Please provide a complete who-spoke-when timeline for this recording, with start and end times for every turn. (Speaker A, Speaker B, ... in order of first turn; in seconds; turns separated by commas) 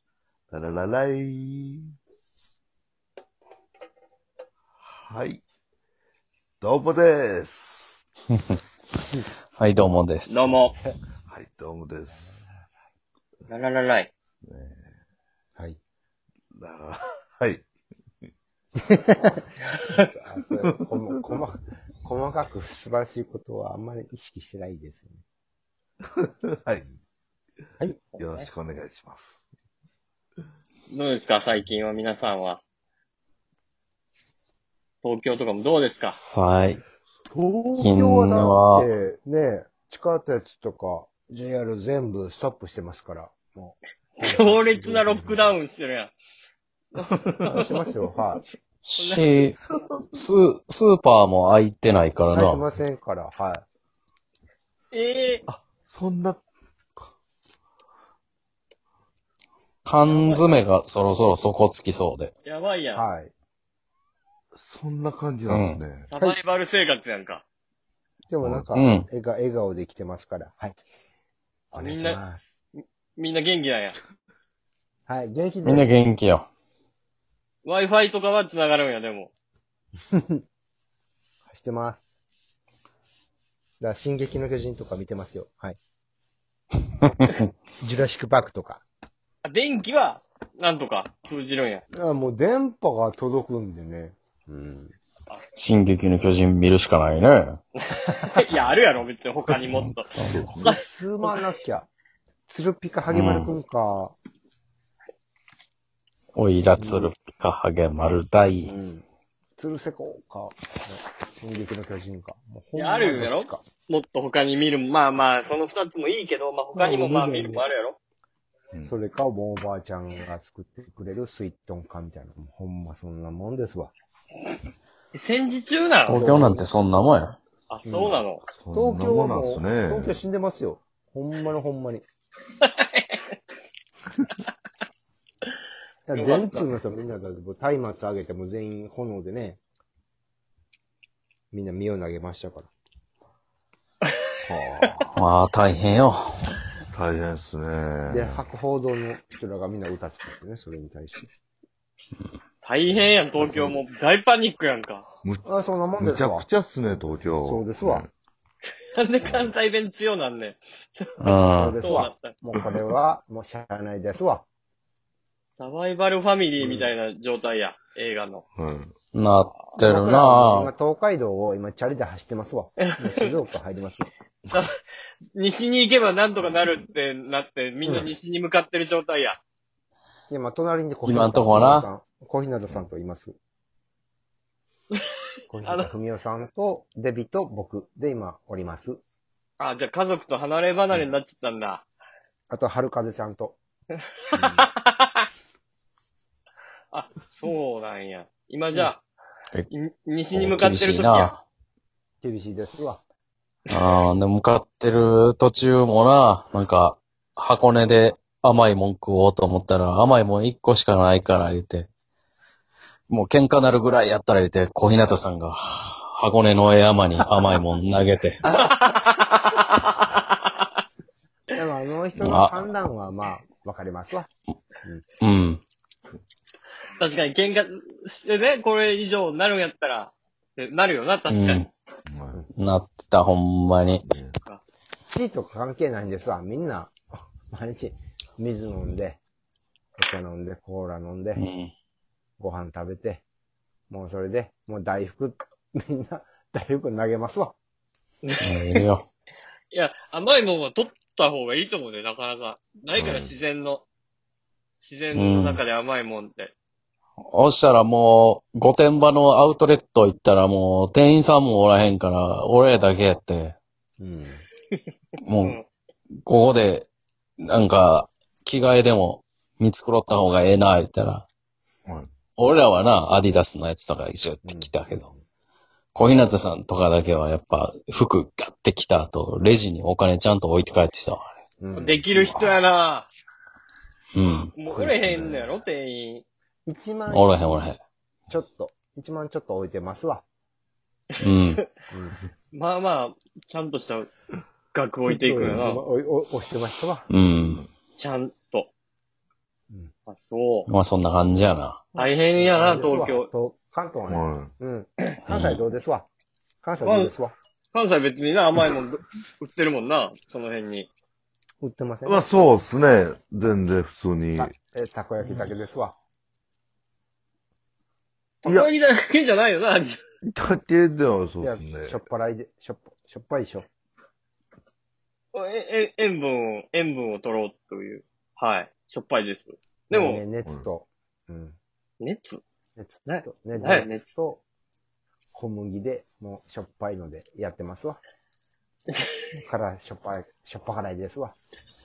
Speaker A: 0.5-1.9, Speaker A: 4.8-5.4, Speaker A: 6.6-8.0, Speaker B: 9.6-10.5, Speaker C: 10.3-10.7, Speaker A: 11.3-12.3, Speaker C: 13.5-14.1, Speaker A: 14.4-14.9, Speaker A: 16.6-17.6, Speaker D: 18.9-19.4, Speaker D: 20.0-25.2, Speaker A: 26.2-26.9, Speaker C: 28.1-28.5, Speaker A: 28.2-29.4, Speaker C: 30.9-32.6, Speaker C: 35.0-36.2, Speaker B: 36.1-36.8, Speaker A: 37.2-38.0, Speaker B: 37.8-38.9, Speaker D: 37.9-45.6, Speaker C: 44.2-46.1, Speaker C: 47.0-47.8, Speaker D: 47.5-48.4, Speaker B: 48.8-49.6, Speaker C: 49.0-49.3, Speaker B: 50.1-52.7, Speaker D: 52.3-53.6, Speaker C: 54.9-55.5, Speaker A: 55.5-56.4, Speaker B: 59.9-62.3, Speaker C: 60.1-60.4, Speaker C: 62.4-63.0, Speaker D: 62.9-63.3, Speaker A: 64.5-66.1, Speaker B: 65.5-65.8, Speaker C: 66.1-67.4, Speaker D: 68.3-70.8, Speaker B: 68.8-69.1, Speaker C: 71.7-72.2, Speaker D: 71.7-72.5, Speaker C: 72.8-74.0, Speaker D: 75.1-75.9, Speaker B: 75.7-76.5, Speaker C: 77.7-79.3, Speaker D: 80.1-80.4, Speaker D: 81.5-82.0, Speaker D: 83.8-85.8, Speaker D: 87.3-88.8, Speaker C: 89.5-91.8, Speaker D: 91.9-95.0, Speaker B: 95.5-97.6, Speaker C: 97.9-101.4, Speaker B: 99.8-100.5, Speaker D: 100.4-101.9, Speaker D: 102.5-104.2, Speaker B: 103.1-103.5, Speaker B: 106.3-108.7, Speaker D: 106.8-107.1, Speaker D: 108.6-109.0, Speaker D: 109.6-113.6, Speaker C: 112.8-118.0, Speaker D: 116.8-117.7, Speaker D: 118.8-123.9, Speaker C: 125.1-126.2, Speaker B: 126.1-127.4, Speaker D: 126.1-126.7, Speaker C: 127.7-128.4, Speaker D: 127.8-128.2, Speaker A: 128.5-130.2, Speaker D: 128.7-132.1, Speaker C: 132.6-133.3, Speaker D: 136.1-139.6, Speaker C: 136.2-136.7, Speaker D: 141.5-142.7, Speaker A: 144.4-145.2, Speaker B: 145.1-146.4, Speaker A: 146.9-148.5, Speaker D: 148.1-151.3, Speaker C: 152.6-155.1, Speaker D: 153.4-153.8, Speaker D: 155.5-156.5, Speaker A: 156.0-158.1, Speaker D: 157.4-158.1, Speaker C: 158.9-162.3, Speaker B: 161.2-161.8, Speaker D: 161.6-164.4, Speaker C: 165.6-168.4, Speaker A: 166.6-166.9, Speaker A: 168.6-168.9, Speaker B: 169.1-170.7, Speaker D: 169.8-174.1, Speaker C: 175.3-179.4, Speaker D: 177.8-178.1, Speaker D: 180.3-183.4, Speaker B: 181.1-181.9, Speaker D: 185.5-189.0, Speaker C: 189.6-191.8, Speaker D: 192.5-193.6, Speaker D: 194.3-194.7, Speaker C: 194.5-195.2, Speaker C: 196.9-199.0, Speaker C: 199.7-201.3, Speaker B: 200.3-201.4, Speaker D: 202.2-203.0, Speaker B: 203.7-211.9, Speaker B: 213.1-218.4, Speaker C: 218.5-220.6, Speaker D: 221.5-224.3, Speaker B: 222.2-222.7, Speaker B: 225.2-225.6, Speaker C: 227.0-231.6, Speaker B: 231.3-231.7, Speaker A: 232.1-232.4, Speaker B: 232.6-234.0, Speaker A: 234.0-234.4, Speaker D: 235.1-239.2, Speaker D: 240.0-241.4, Speaker B: 241.4-241.7, Speaker D: 242.4-243.2, Speaker D: 243.9-247.6, Speaker B: 248.4-249.1, Speaker C: 249.7-253.8, Speaker A: 252.9-253.3, Speaker C: 254.8-256.5, Speaker B: 255.1-255.6, Speaker B: 257.3-263.6, Speaker D: 264.0-264.4, Speaker B: 265.2-265.6, Speaker B: 266.2-266.9, Speaker B: 267.4-271.2, Speaker B: 272.4-275.1, Speaker D: 274.4-275.2, Speaker B: 275.9-281.3, Speaker D: 281.6-282.0, Speaker A: 281.8-282.6, Speaker C: 281.8-283.1, Speaker B: 284.1-284.5, Speaker C: 284.6-286.3, Speaker A: 284.7-285.5, Speaker D: 286.7-287.4, Speaker B: 287.1-287.8, Speaker D: 288.3-290.2, Speaker B: 291.2-291.6, Speaker D: 291.9-292.2, Speaker C: 292.5-294.1, Speaker C: 294.7-295.8, Speaker D: 295.1-297.1, Speaker B: 297.1-297.6, Speaker C: 298.0-298.7, Speaker C: 300.1-300.7, Speaker B: 300.7-301.8, Speaker D: 301.9-306.1, Speaker C: 302.0-303.3, Speaker A: 304.1-304.5, Speaker B: 305.3-305.6, Speaker D: 306.6-307.4, Speaker C: 306.8-307.1, Speaker C: 307.7-310.9, Speaker D: 311.6-312.4, Speaker A: 312.1-314.5, Speaker D: 314.4-316.0, Speaker C: 318.4-320.0, Speaker A: 318.4-318.7, Speaker A: 320.3-322.0, Speaker D: 321.4-323.7, Speaker C: 325.3-330.2, Speaker D: 329.9-331.6, Speaker C: 332.0-332.4, Speaker D: 332.8-334.4, Speaker C: 333.1-334.0, Speaker D: 335.3-338.0, Speaker D: 339.4-341.4